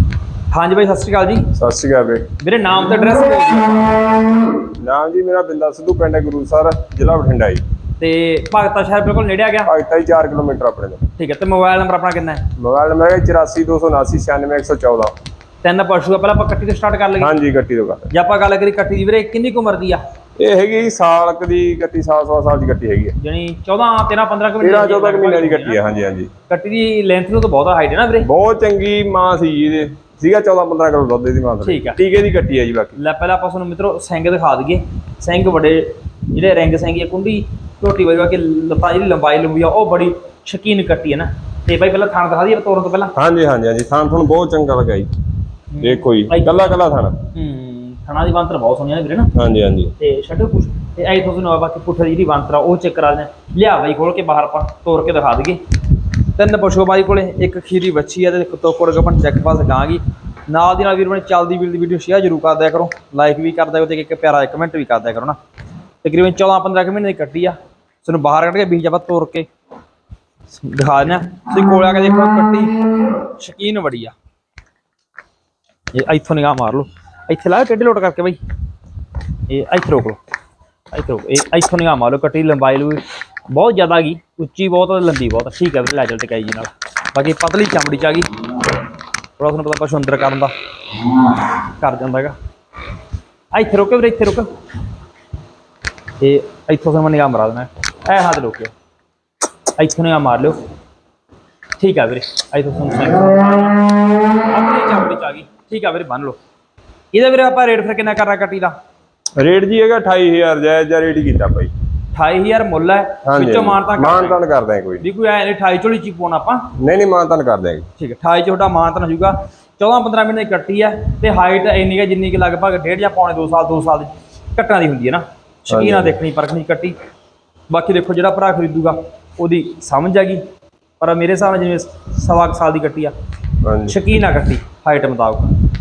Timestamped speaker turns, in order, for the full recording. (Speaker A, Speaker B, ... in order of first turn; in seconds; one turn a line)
Speaker A: 0.5-1.5
Speaker B: 1.6-2.3
Speaker A: 2.4-4.2
Speaker B: 4.7-7.6
Speaker A: 8.0-9.7
Speaker B: 9.7-11.0
Speaker A: 11.2-12.4
Speaker B: 12.6-15.1
Speaker A: 15.6-17.3
Speaker B: 17.2-18.1
Speaker A: 18.1-20.0
Speaker B: 20.4-23.2
Speaker A: 23.2-25.8
Speaker B: 24.6-26.3
Speaker A: 26.5-28.3
Speaker B: 28.3-33.0
Speaker A: 31.6-32.0
Speaker A: 33.0-43.1
Speaker B: 43.2-45.1
Speaker A: 45.7-46.7
Speaker B: 45.8-47.2
Speaker A: 47.3-49.3
Speaker B: 49.4-49.9
Speaker A: 50.0-55.6
Speaker A: 56.4-65.4
Speaker A: 66.0-69.5
Speaker A: 70.5-72.8
Speaker A: 73.3-74.2
Speaker A: 75.9-78.4
Speaker A: 79.5-80.2
Speaker A: 80.9-88.3
Speaker A: 89.4-90.5
Speaker A: 91.8-92.4
Speaker A: 93.5-94.5
Speaker A: 96.2-98.7
Speaker A: 99.8-100.6
Speaker A: 101.8-103.8
Speaker A: 104.4-106.4
Speaker A: 107.1-108.7
Speaker B: 109.4-111.7
Speaker A: 112.1-114.4
Speaker B: 113.2-115.0
Speaker A: 115.0-116.7
Speaker B: 116.8-117.9
Speaker A: 118.0-127.0
Speaker B: 125.7-126.2
Speaker A: 127.7-130.4
Speaker A: 131.0-133.1
Speaker B: 133.6-133.9
Speaker A: 133.9-135.5